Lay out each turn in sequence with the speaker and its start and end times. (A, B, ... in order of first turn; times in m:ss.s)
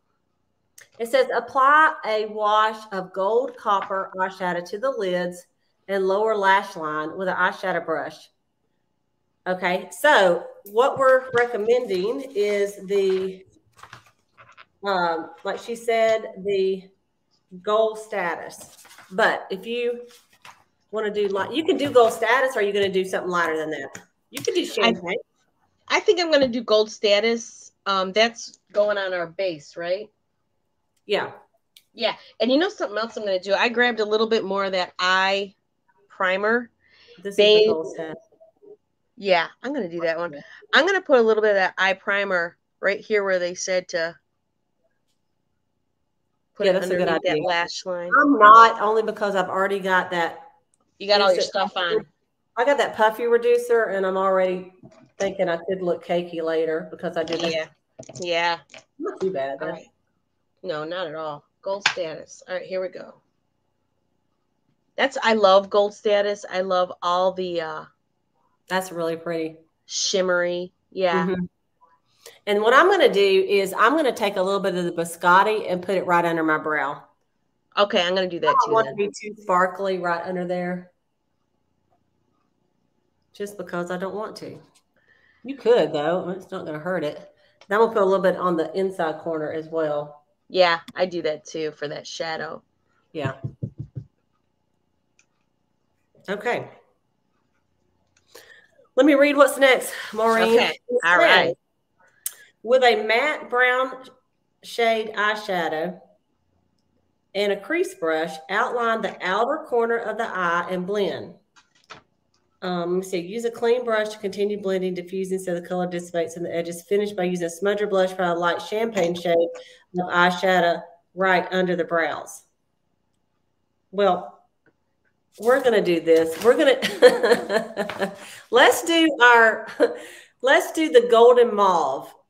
0:01.0-0:08.3 A
0:09.4-0:13.4 A
0:14.8-0:16.9 A
0:17.6-0:20.0 A
0:20.9-0:25.2 A
0:25.9-0:30.1 B
0:31.1-0:31.3 A
0:31.9-0:35.5 B
0:36.1-0:36.7 B
0:37.2-0:38.2 A
0:37.4-0:37.8 B
0:39.2-0:44.2 B
0:46.6-0:48.2 B
0:46.6-0:47.5 A
0:48.1-0:50.4 A
0:51.0-0:52.0 B
0:51.1-0:52.0 A
0:52.6-0:57.6 A
0:57.3-0:58.6 B
0:59.0-0:59.8 A
0:59.6-0:59.9 B
1:00.6-1:03.2 B
1:05.0-1:07.9 B
1:08.7-1:09.6 A
1:09.9-1:11.3 B
1:11.1-1:11.5 A
1:12.4-1:17.0 A
1:17.8-1:19.0 B
1:18.4-1:20.9 A
1:23.3-1:24.6 A
1:25.4-1:30.2 A
1:30.5-1:32.6 B
1:36.3-1:36.7 A
1:39.0-1:41.5 A
1:40.3-1:41.5 B
1:42.6-1:44.0 A
1:44.6-1:46.0 A
1:47.3-1:51.4 A
1:52.6-2:02.4 A
2:03.9-2:04.4 A
2:05.4-2:12.1 A